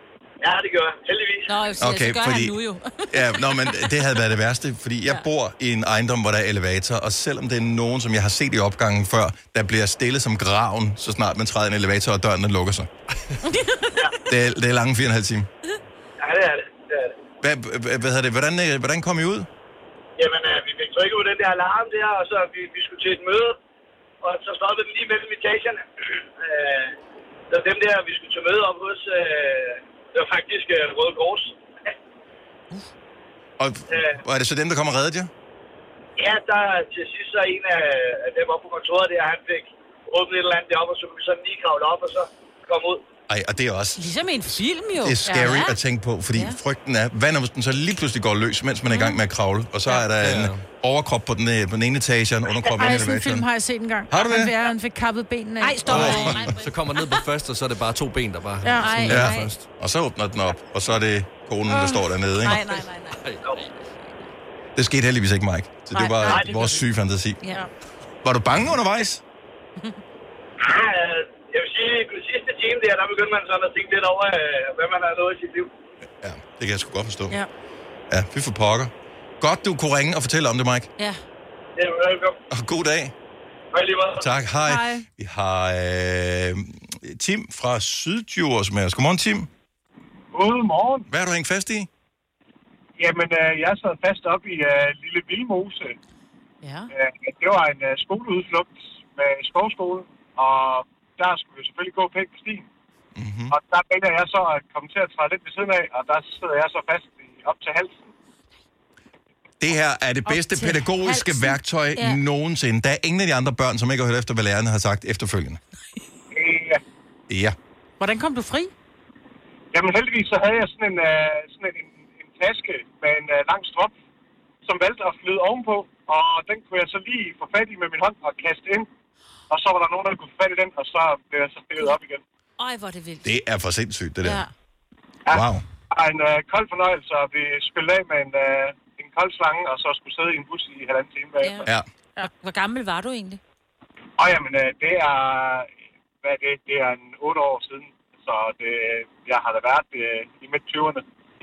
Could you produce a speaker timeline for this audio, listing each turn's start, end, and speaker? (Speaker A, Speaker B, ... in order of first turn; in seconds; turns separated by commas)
Speaker A: 0.4-1.5, Speaker B: 1.5-4.0, Speaker C: 1.8-2.6, Speaker C: 3.1-12.9, Speaker B: 13.6-13.9, Speaker C: 14.3-15.5, Speaker A: 16.2-17.1, Speaker C: 17.4-19.5, Speaker A: 20.2-23.6, Speaker A: 24.2-25.8, Speaker A: 26.4-26.9, Speaker A: 27.5-31.9, Speaker C: 33.6-35.3, Speaker A: 33.9-34.2, Speaker A: 36.2-43.0, Speaker C: 43.3-44.1, Speaker B: 44.0-45.8, Speaker C: 45.0-53.5, Speaker D: 45.2-45.6, Speaker B: 46.3-46.6, Speaker B: 48.9-49.2, Speaker E: 50.2-50.6, Speaker D: 52.8-56.2, Speaker C: 54.1-54.5, Speaker B: 55.6-57.2, Speaker E: 55.9-59.6, Speaker C: 55.9-56.5, Speaker D: 58.6-59.3, Speaker B: 59.1-59.5, Speaker C: 59.1-62.6, Speaker B: 62.4-64.1, Speaker C: 64.8-67.4, Speaker D: 66.0-66.8, Speaker B: 66.2-66.5, Speaker C: 68.2-69.2, Speaker A: 70.6-75.7, Speaker C: 76.2-77.4, Speaker C: 78.1-80.9, Speaker A: 81.8-82.4, Speaker C: 82.5-83.1, Speaker A: 83.7-84.3, Speaker C: 84.2-89.5, Speaker B: 84.7-85.0, Speaker F: 90.3-91.1, Speaker C: 91.1-91.9, Speaker F: 93.0-96.0, Speaker B: 96.6-96.9, Speaker F: 96.9-102.7, Speaker C: 103.2-103.5, Speaker F: 103.5-108.1, Speaker C: 109.6-115.6, Speaker D: 110.3-111.3, Speaker B: 112.0-112.2, Speaker F: 116.3-116.8, Speaker C: 117.3-117.6, Speaker D: 118.0-118.7, Speaker F: 119.7-123.9, Speaker F: 124.7-128.9, Speaker F: 129.5-132.2, Speaker B: 132.6-133.3, Speaker C: 133.2-134.4, Speaker B: 134.2-134.5, Speaker F: 135.3-141.7, Speaker C: 135.3-135.6, Speaker B: 141.4-141.7, Speaker B: 142.2-143.4, Speaker F: 144.2-145.7, Speaker F: 146.2-151.0